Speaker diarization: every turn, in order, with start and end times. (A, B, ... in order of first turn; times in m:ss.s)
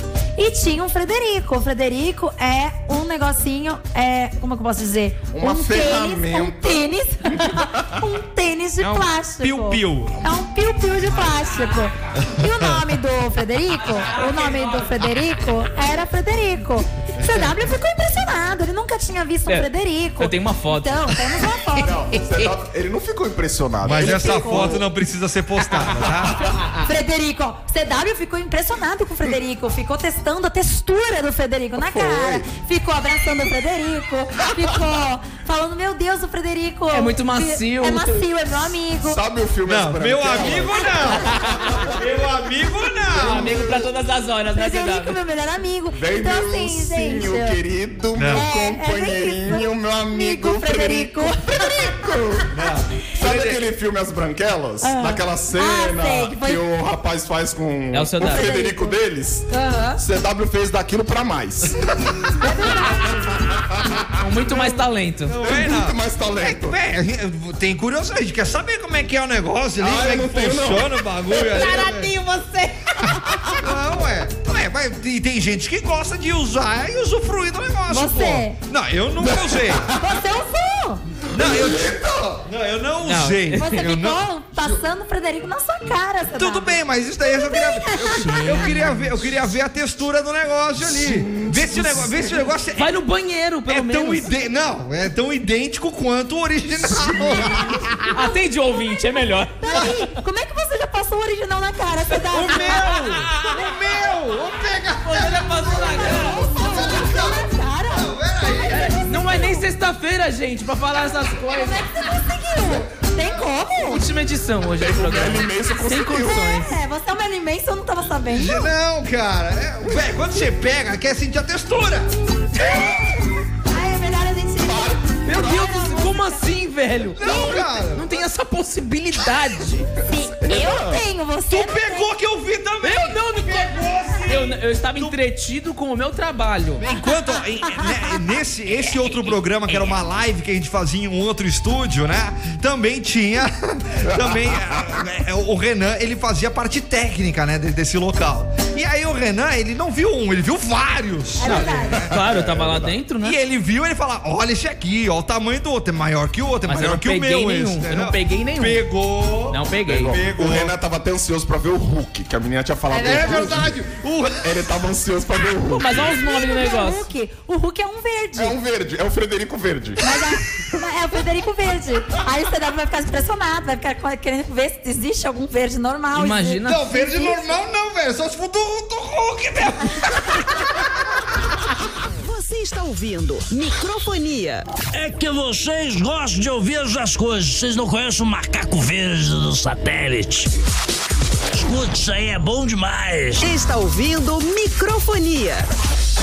0:00.4-0:22.0 A
0:05.3-0:08.0 B
0:08.8-0:10.2 C
0:11.5-0:11.9 D
0:12.2-0:12.9 C
0:13.8-0:15.1 D
0:17.2-0:17.5 C
0:19.5-0:21.4 D
0:21.8-0:24.9 B
0:23.8-0:26.5 C
0:23.9-0:24.8 A
0:25.9-0:26.3 B
0:26.8-0:39.2 A
0:31.8-0:32.5 B
0:36.9-0:38.3 D
0:39.0-0:42.0 B
0:39.7-0:43.6 C
0:43.2-0:43.8 B
0:43.2-0:45.2 D
0:44.5-0:47.6 A
0:45.9-0:52.5 B
0:48.2-0:48.4 C
0:48.3-0:51.9 A
0:52.5-0:53.0 C
0:53.1-1:04.2 B
0:53.2-0:53.5 D
0:54.8-0:56.6 A
0:57.9-0:58.4 D
0:58.2-0:59.0 A
0:59.5-1:00.0 A
1:02.4-1:03.4 A
1:04.2-1:05.4 D
1:05.3-1:12.1 C
1:05.4-1:06.8 B
1:09.8-1:11.6 B
1:11.4-1:12.7 D
1:13.5-1:19.9 C
1:17.9-1:18.6 A
1:19.2-1:20.2 B
1:20.0-1:21.0 A
1:21.3-1:22.4 B
1:21.3-1:21.9 C
1:22.4-1:24.2 C
1:23.0-1:23.9 D
1:23.6-1:28.7 A
1:26.3-1:32.9 C
1:28.2-1:29.0 D
1:30.8-1:32.2 B
1:32.8-1:34.3 D
1:33.7-1:38.2 C
1:38.1-1:40.0 D
1:39.6-1:42.9 A
1:42.3-1:49.0 C
1:42.3-1:43.3 D
1:43.5-1:43.7 A
1:45.0-1:46.5 D
1:45.9-1:49.6 A
1:48.7-1:51.8 D
1:51.4-1:54.0 A
1:53.8-1:56.7 D
1:54.8-1:56.6 B
1:56.2-1:58.7 A
1:58.3-2:02.1 C
2:02.6-2:06.4 A
2:04.6-2:05.5 B
2:05.2-2:09.9 D
2:07.2-2:08.2 C
2:07.2-2:07.6 A
2:10.1-2:12.1 A
2:10.4-2:11.0 B
2:11.5-2:15.1 C
2:12.8-2:16.8 D
2:16.8-2:31.9 C
2:18.8-2:20.0 D
2:24.1-2:24.9 B
2:31.4-2:32.0 A
2:31.4-2:33.4 D
2:31.6-2:33.0 B
2:33.2-2:40.7 C
2:36.7-2:38.8 D
2:39.5-2:40.2 D
2:39.9-2:43.8 B
2:42.9-2:44.5 C
2:42.9-2:43.5 A
2:44.4-2:46.1 B
2:45.7-2:47.1 D
2:46.0-2:48.6 A
2:48.4-2:50.3 B
2:50.0-2:57.4 A
2:56.1-2:56.8 D
2:56.6-3:00.7 C
3:02.2-3:04.6 E
3:04.9-3:10.5 F
3:11.5-3:13.5 F
3:13.4-3:15.7 E